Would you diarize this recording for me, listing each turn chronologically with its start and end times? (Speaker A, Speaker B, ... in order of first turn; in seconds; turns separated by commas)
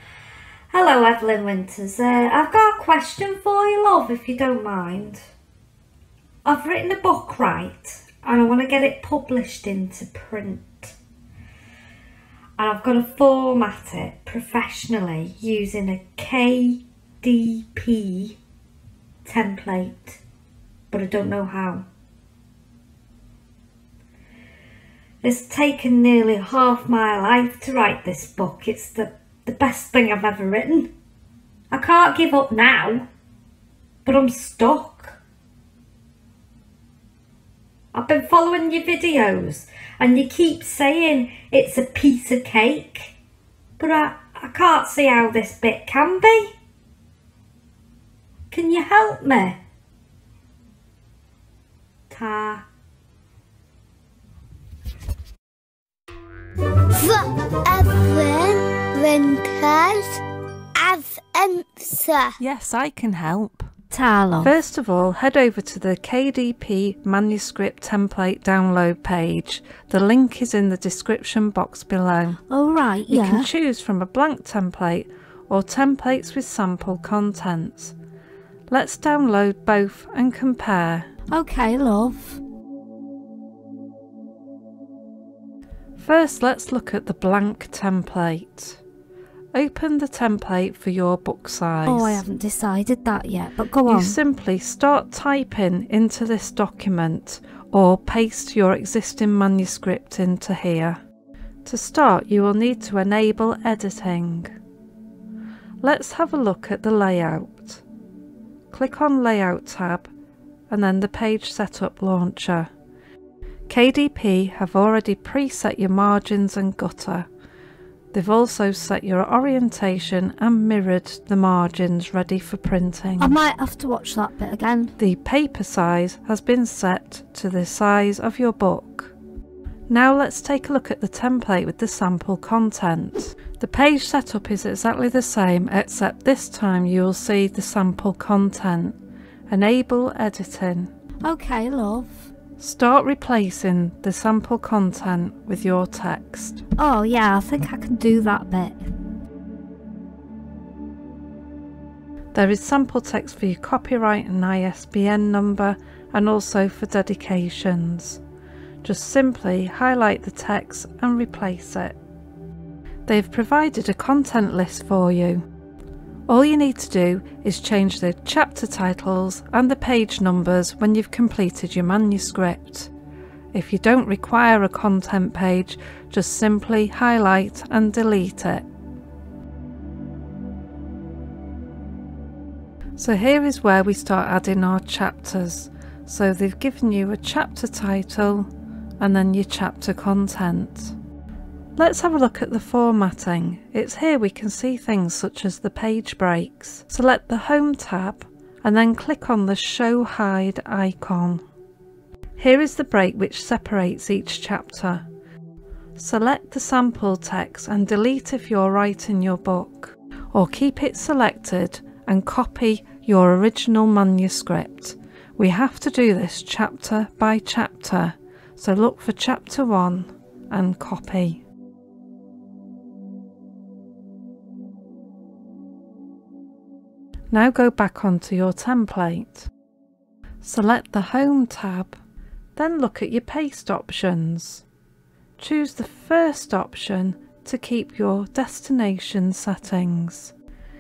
Speaker A: 0.7-5.3, Speaker A: 6.5-10.9, Speaker A: 12.6-18.4, Speaker A: 19.2-20.2, Speaker A: 20.9-21.9, Speaker A: 25.2-30.9, Speaker A: 31.7-33.1, Speaker A: 34.0-35.2, Speaker A: 37.9-43.1, Speaker A: 43.8-46.5, Speaker A: 48.5-49.6, Speaker A: 52.1-52.7, Speaker B: 56.9-60.2, Speaker B: 60.8-62.4, Speaker C: 62.4-63.7, Speaker A: 63.9-64.5, Speaker C: 64.4-72.4, Speaker A: 72.5-73.5, Speaker C: 73.1-78.0, Speaker C: 78.7-81.1, Speaker A: 81.3-82.4, Speaker C: 86.0-88.8, Speaker C: 89.5-92.2, Speaker A: 91.9-94.2, Speaker C: 93.9-101.0, Speaker C: 101.7-104.5, Speaker C: 105.8-107.8, Speaker C: 108.7-110.1, Speaker C: 110.7-112.7, Speaker C: 113.7-117.3, Speaker C: 118.1-123.4, Speaker A: 123.2-124.9, Speaker C: 125.0-129.1, Speaker C: 129.9-138.9, Speaker C: 139.5-140.9, Speaker A: 141.2-142.2, Speaker C: 142.6-146.6, Speaker A: 146.8-148.9, Speaker C: 152.3-158.2, Speaker C: 158.8-161.9, Speaker C: 163.1-165.4, Speaker C: 166.3-172.9, Speaker C: 173.5-178.6, Speaker C: 183.0-190.9, Speaker C: 191.8-201.4, Speaker C: 202.4-205.1, Speaker C: 205.9-221.4, Speaker C: 227.3-229.5, Speaker C: 230.4-232.0, Speaker C: 232.6-234.6, Speaker C: 235.4-240.3